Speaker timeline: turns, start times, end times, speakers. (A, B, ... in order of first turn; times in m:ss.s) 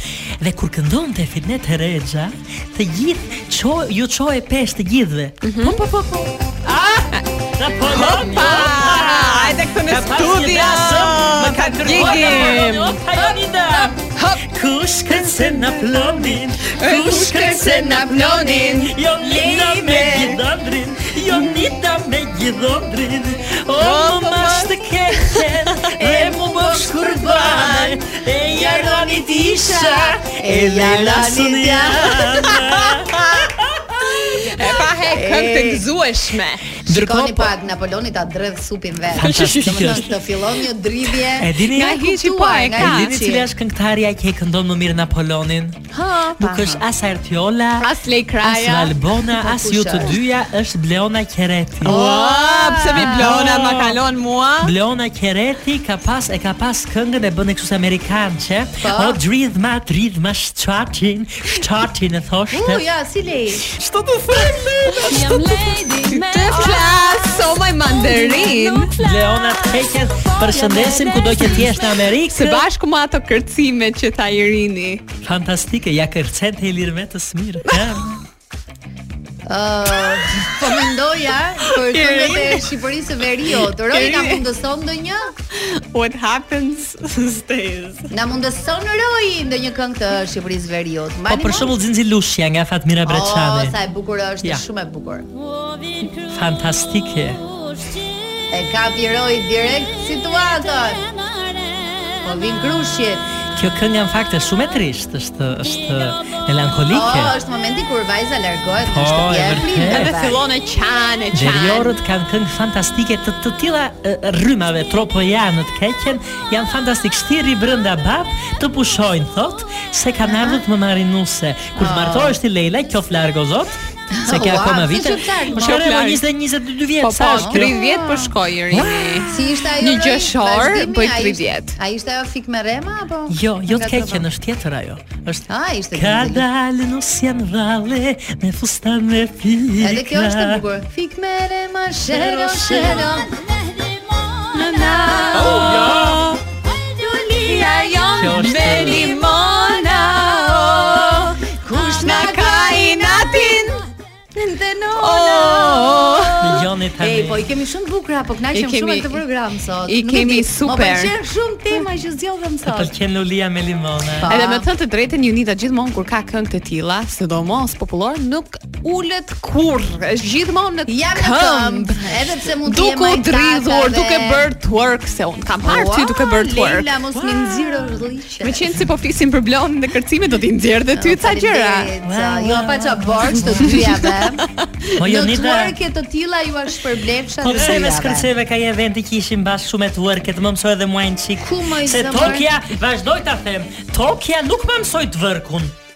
0:00.4-0:06.0 A
0:05.4-0:05.8 B
0:06.6-0:34.0 A
0:07.9-0:14.4 B
0:15.1-0:19.0 B
0:19.2-0:20.4 C
0:23.8-0:25.4 B
0:26.0-0:32.6 C
0:33.2-0:33.5 B
0:34.0-0:36.6 B
0:34.8-0:35.9 C
0:36.8-0:37.5 A
0:36.9-0:43.5 C
0:39.1-0:40.1 A
0:41.4-0:42.0 A
0:41.7-0:43.1 B
0:42.7-0:45.8 A
0:45.9-0:46.4 B
0:46.4-0:46.8 C
0:46.4-0:47.9 A
0:47.8-0:48.9 B
0:48.4-0:52.0 A
0:49.3-0:50.2 C
0:51.8-0:53.4 C
0:51.8-0:54.7 B
0:52.9-0:54.0 A
0:54.6-1:02.8 A
0:58.8-0:59.2 C
1:02.5-1:03.7 C
1:03.7-1:06.8 A
1:06.0-1:08.9 B
1:08.2-1:12.6 A
1:10.4-1:11.5 C
1:12.3-1:15.0 B
1:15.2-1:18.2 A
1:19.5-1:25.3 C
1:21.7-1:22.7 B
1:23.6-1:24.4 B
1:25.5-1:28.1 B
1:28.1-1:31.8 C
1:31.3-1:33.7 A
1:33.0-1:35.3 C
1:36.2-1:37.4 A
1:38.5-1:41.0 C
1:42.2-1:43.2 C
1:43.6-1:47.3 A
1:46.9-1:50.4 C
1:48.9-1:50.1 A
1:49.9-1:52.0 B
1:51.3-2:07.8 A
2:00.2-2:00.6 C
2:01.8-2:02.4 C
2:04.1-2:05.8 C
2:05.6-2:06.2 B
2:07.0-2:11.8 B
2:07.4-2:08.3 C
2:08.7-2:09.2 A
2:09.2-2:14.2 C
2:13.3-2:20.6 A
2:15.5-2:16.4 C
2:19.8-2:23.3 C
2:22.1-2:23.2 A
2:24.5-2:26.4 B
2:24.7-2:26.2 C
2:25.3-2:26.3 A
2:26.8-2:28.1 C
2:27.3-2:33.8 B
2:28.1-2:29.2 A
2:28.7-2:29.1 C
2:30.6-2:33.7 C
2:34.3-2:42.9 C
2:35.0-2:36.4 B
2:36.4-2:37.4 A
2:38.5-2:39.2 B
2:39.9-2:41.1 B
2:42.6-2:44.3 A
2:44.2-2:44.6 C
2:44.3-2:56.9 B
2:50.9-2:54.4 C
2:55.6-2:58.8 C
2:58.4-3:01.9 B
3:00.9-3:04.4 C
3:02.0-3:03.8 A
3:05.0-3:05.8 A
3:05.0-3:08.3 C
3:07.4-3:15.7 A
3:11.4-3:12.5 C